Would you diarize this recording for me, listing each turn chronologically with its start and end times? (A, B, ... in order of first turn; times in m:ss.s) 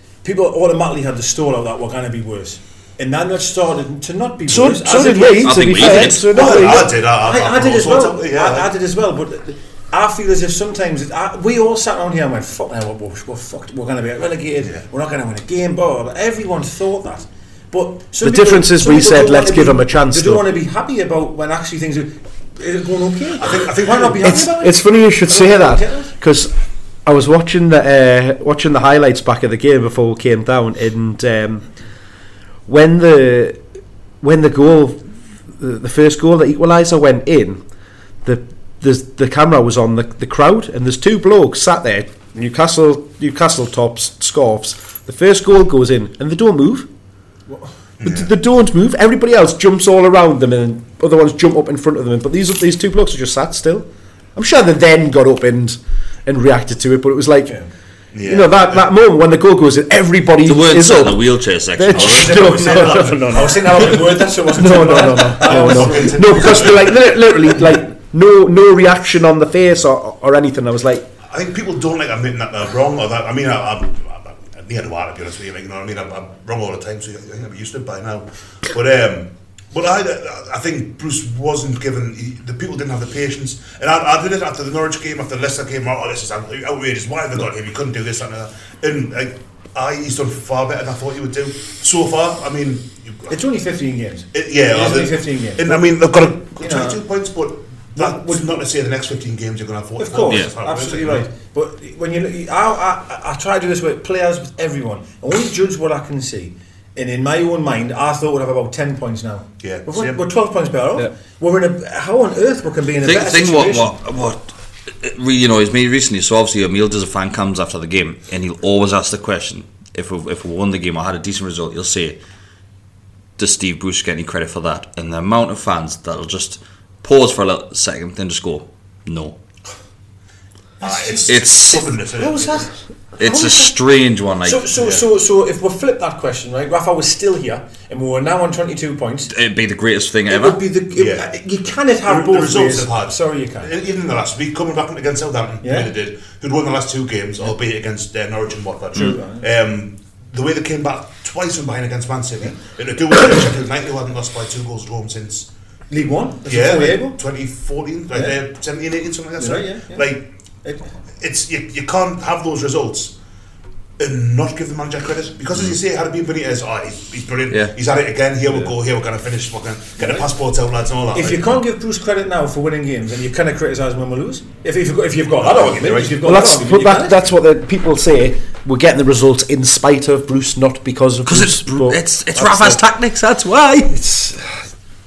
0:00.2-0:26.1 A
0:04.5-0:07.0 B
0:05.3-0:06.5 C
0:06.2-0:08.7 D
0:18.2-0:20.5 B
0:23.4-0:24.4 D
0:24.2-0:26.5 B
0:27.1-0:31.7 B
0:32.7-0:33.6 B
0:34.2-0:35.0 B
0:35.6-0:37.6 B
0:38.2-0:46.9 B
0:48.0-0:48.3 D
0:48.0-0:57.6 B
0:58.1-0:58.9 D
0:58.2-1:11.1 B
1:00.4-1:02.7 C
1:02.0-1:06.8 A
1:02.6-1:03.4 D
1:05.0-1:07.2 D
1:11.3-1:33.3 D
1:33.3-1:37.0 A
1:34.3-1:41.3 D
1:38.0-1:38.6 A
1:40.0-1:53.9 A
1:49.6-1:50.2 D
1:53.0-2:02.2 C
2:03.4-2:09.4 C
2:10.8-2:11.4 A
2:10.8-2:12.7 D
2:11.3-2:12.0 C
2:12.2-2:13.8 A
2:13.2-2:14.7 C
2:14.4-2:19.3 A
2:14.7-2:15.1 D
2:19.3-2:20.6 C
2:20.3-2:23.8 A
2:20.9-2:21.4 D
2:22.0-2:35.5 D
2:25.6-2:25.9 A
2:29.0-2:29.4 A
2:35.9-2:37.2 A
2:36.5-2:40.3 D
2:39.4-2:40.1 A
2:40.6-2:41.0 A
2:41.2-2:43.2 D
2:44.0-2:51.6 D
2:47.5-2:47.8 C
2:50.0-2:50.2 A
2:51.1-2:57.2 A
2:55.4-2:56.4 D
2:56.2-3:02.8 B
3:01.3-3:03.9 C
3:03.9-3:04.4 B